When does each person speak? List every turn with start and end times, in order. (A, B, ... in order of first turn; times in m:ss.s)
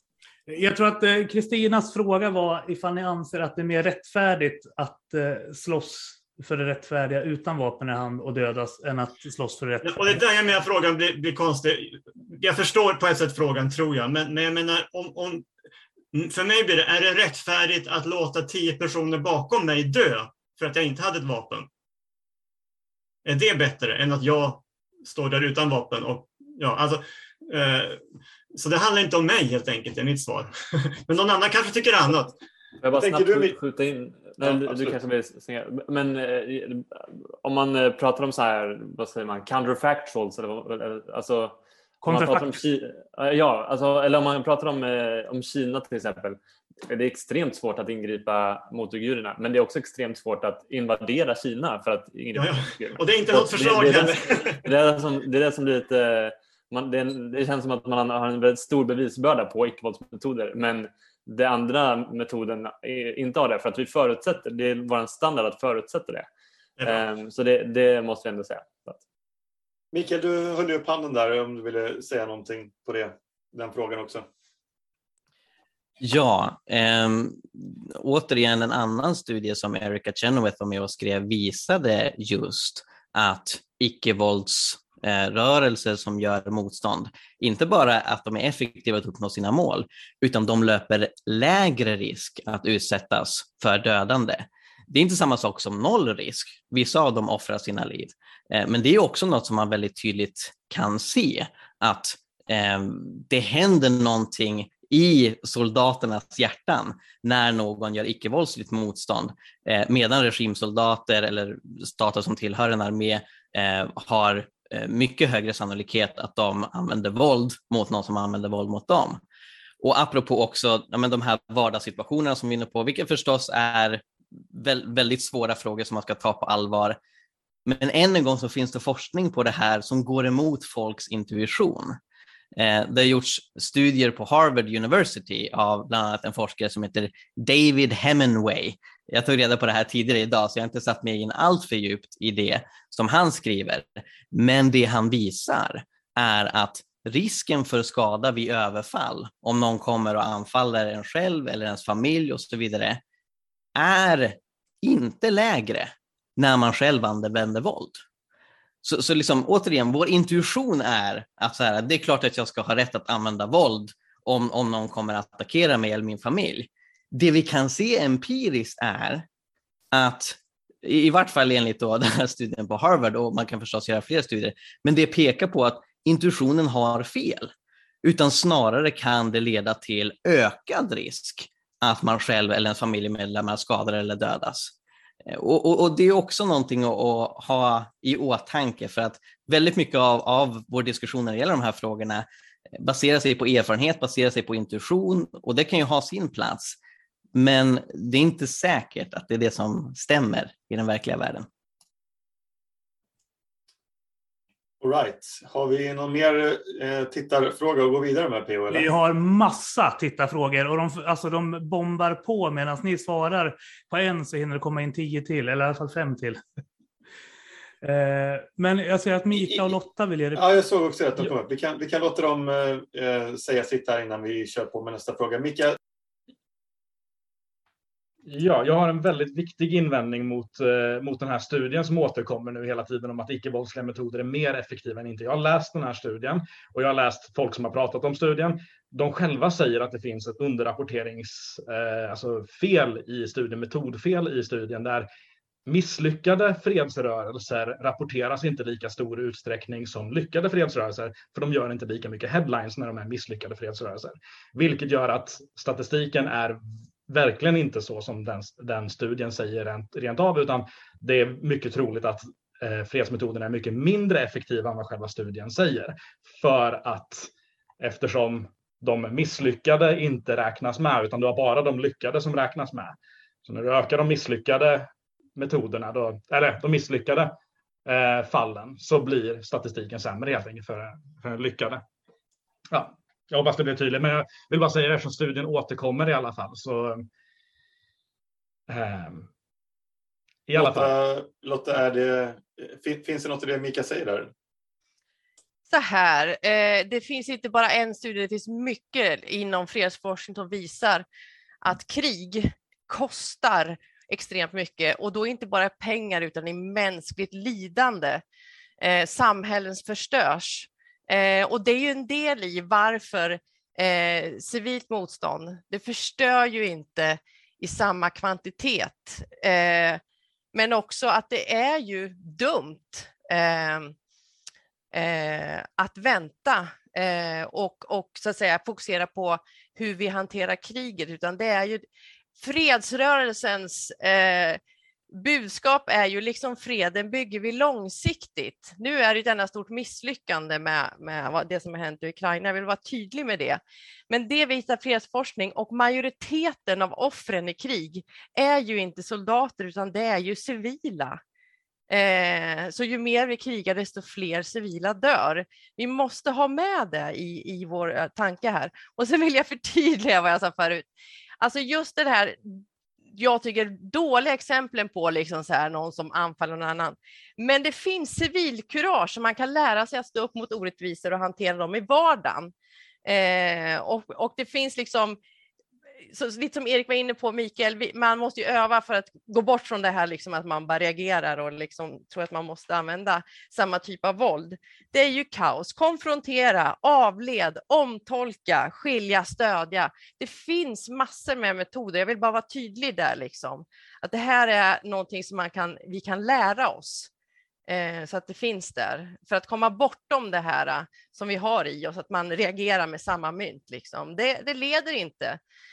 0:00.5-0:10.2 A
0:09.8-0:15.5 B
0:16.1-0:21.7 B
0:23.2-0:28.0 B
0:28.5-0:32.4 B
0:32.8-1:06.3 C
0:32.9-0:33.6 D
0:34.4-0:35.0 D
0:42.0-0:42.6 A
0:52.4-0:54.7 B
1:06.8-1:09.0 C
1:09.9-1:14.3 D
1:16.0-1:59.2 E
1:59.8-2:07.0 E
2:07.7-2:12.0 E
2:12.6-2:33.0 E
2:33.8-2:38.0 E
2:38.8-2:49.3 E
2:49.9-2:57.5 E
2:58.0-3:04.7 E
3:05.3-3:12.3 E
3:12.8-3:16.8 E
3:17.4-3:21.5 E
3:24.8-3:29.0 D
3:28.7-3:36.4 A
3:37.8-3:40.6 A
3:40.4-3:45.8 D
3:48.3-4:05.1 F
4:05.7-4:41.8 F
4:42.7-4:47.1 F
4:48.7-4:49.3 F
4:50.5-4:50.9 F
4:50.6-4:54.3 D
4:55.7-5:01.0 G
5:01.6-5:08.2 G
5:08.8-5:20.0 G
5:20.5-5:24.0 G
5:24.9-5:31.8 G
5:32.4-5:34.6 G
5:35.1-5:51.2 G
5:51.9-6:02.6 G
6:03.1-6:12.5 G
6:13.0-6:15.2 G
6:16.1-6:37.1 G
6:37.7-6:45.4 G